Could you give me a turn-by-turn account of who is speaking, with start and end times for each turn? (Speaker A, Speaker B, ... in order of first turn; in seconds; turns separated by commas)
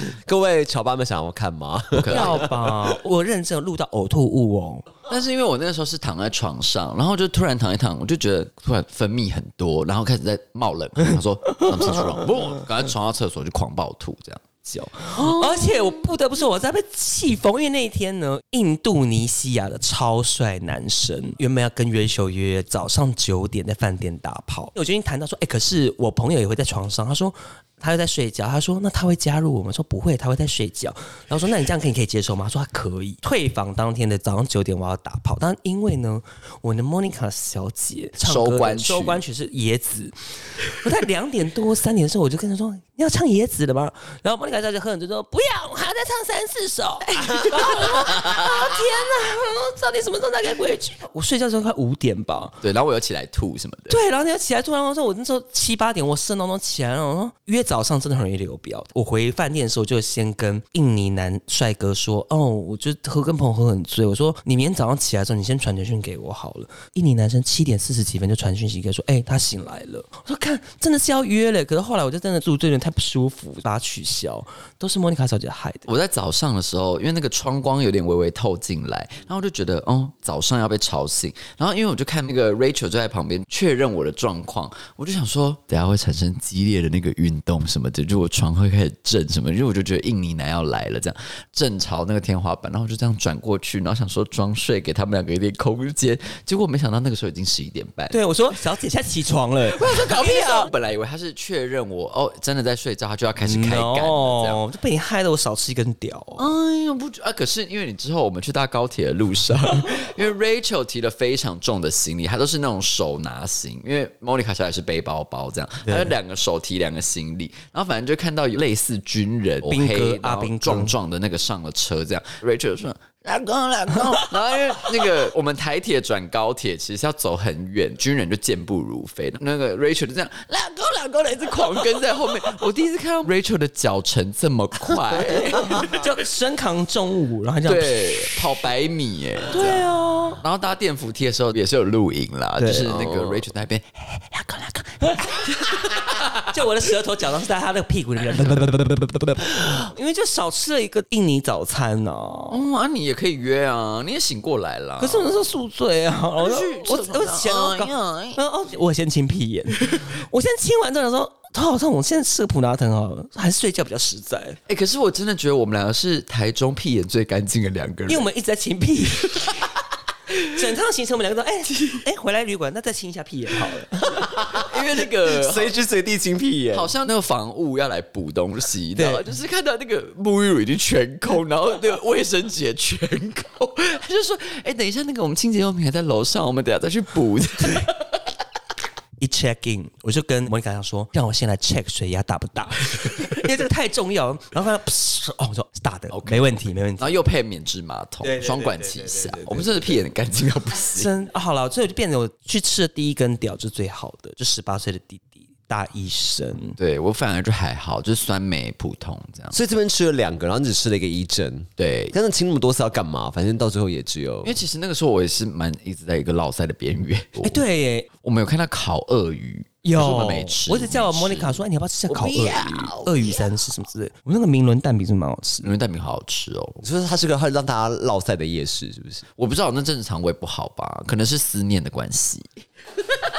Speaker A: 0.2-2.5, Speaker B: 1.9-2.4, Speaker C: 2.1-4.9, Speaker B: 5.1-14.4, Speaker C: 11.9-12.2, Speaker C: 14.7-52.6, Speaker B: 15.1-16.0, Speaker B: 38.2-39.2, Speaker B: 47.2-47.6, Speaker B: 52.6-54.0, Speaker C: 53.9-75.9, Speaker B: 75.8-98.2, Speaker C: 98.1-100.7, Speaker B: 99.6-104.6, Speaker C: 103.4-106.5, Speaker B: 106.4-136.0, Speaker C: 115.8-116.1, Speaker C: 119.6-121.0, Speaker C: 135.2-138.4, Speaker B: 137.6-139.9, Speaker C: 139.5-140.4, Speaker B: 140.4-146.4, Speaker C: 142.6-143.0, Speaker A: 142.8-143.5, Speaker C: 146.3-152.6, Speaker B: 152.5-155.4, Speaker C: 155.0-164.6, Speaker B: 156.4-158.4, Speaker B: 164.7-168.3, Speaker C: 168.1-169.5, Speaker C: 170.3-174.4, Speaker B: 174.5-175.7, Speaker A: 175.3-176.9, Speaker B: 176.7-188.2, Speaker C: 178.9-179.2, Speaker C: 189.2-197.2, Speaker B: 196.1-201.1, Speaker C: 198.2-200.0, Speaker C: 200.9-206.8, Speaker B: 206.8-209.6, Speaker A: 209.5-214.6, Speaker B: 211.8-212.1, Speaker B: 214.4-217.6, Speaker C: 217.4-218.1, Speaker B: 218.2-223.3, Speaker C: 219.8-225.7, Speaker B: 225.6-226.8, Speaker A: 226.8-229.2, Speaker B: 229.4-232.6